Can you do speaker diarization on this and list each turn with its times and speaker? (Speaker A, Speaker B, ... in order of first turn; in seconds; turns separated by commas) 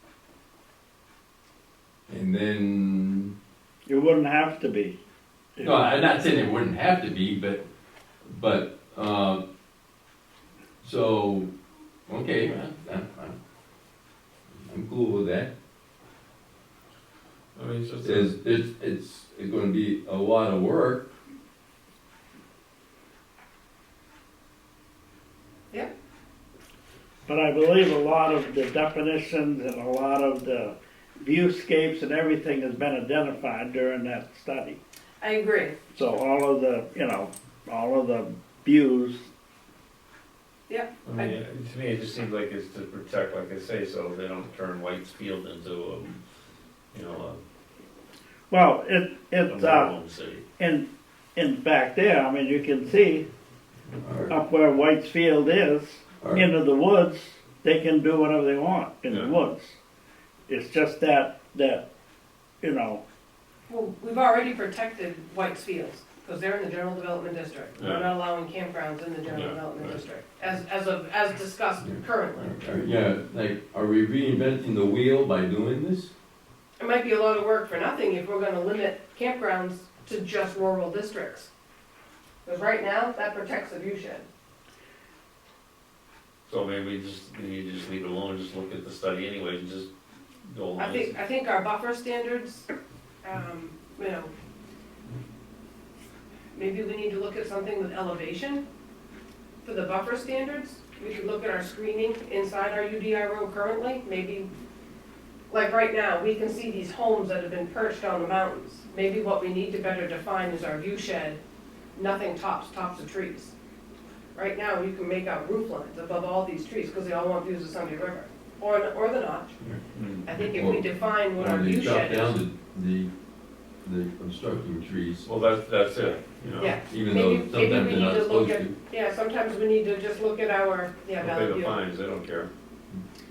Speaker A: 2.1-3.4, Speaker B: 3.9-5.0, Speaker B: 5.6-6.1, Speaker A: 5.6-7.7, Speaker A: 8.2-9.4, Speaker A: 10.8-11.5, Speaker A: 12.1-13.4, Speaker A: 14.7-15.5, Speaker C: 17.6-18.4, Speaker A: 18.0-21.1, Speaker B: 27.3-34.8, Speaker D: 35.2-35.8, Speaker B: 35.9-39.3, Speaker D: 40.7-41.4, Speaker C: 41.0-46.2, Speaker C: 46.9-47.4, Speaker B: 48.5-49.9, Speaker C: 49.5-50.4, Speaker B: 50.6-53.3, Speaker A: 54.0-54.4, Speaker B: 54.3-59.8, Speaker C: 59.1-59.3, Speaker B: 60.5-61.9, Speaker B: 62.6-63.0, Speaker D: 63.7-72.5, Speaker C: 67.8-68.1, Speaker C: 69.3-70.0, Speaker A: 71.8-76.1, Speaker D: 76.8-81.5, Speaker D: 82.5-84.3, Speaker C: 86.5-89.9, Speaker C: 90.4-91.2, Speaker D: 90.8-92.7, Speaker D: 93.2-94.3, Speaker D: 96.5-98.6, Speaker D: 99.6-104.5, Speaker D: 105.5-111.4, Speaker D: 112.0-113.5, Speaker D: 114.3-119.5, Speaker C: 119.9-120.3, Speaker D: 120.2-122.4, Speaker A: 120.4-123.1, Speaker A: 123.8-125.3, Speaker C: 125.2-126.8, Speaker D: 126.6-131.8, Speaker A: 126.9-128.8, Speaker C: 131.2-132.5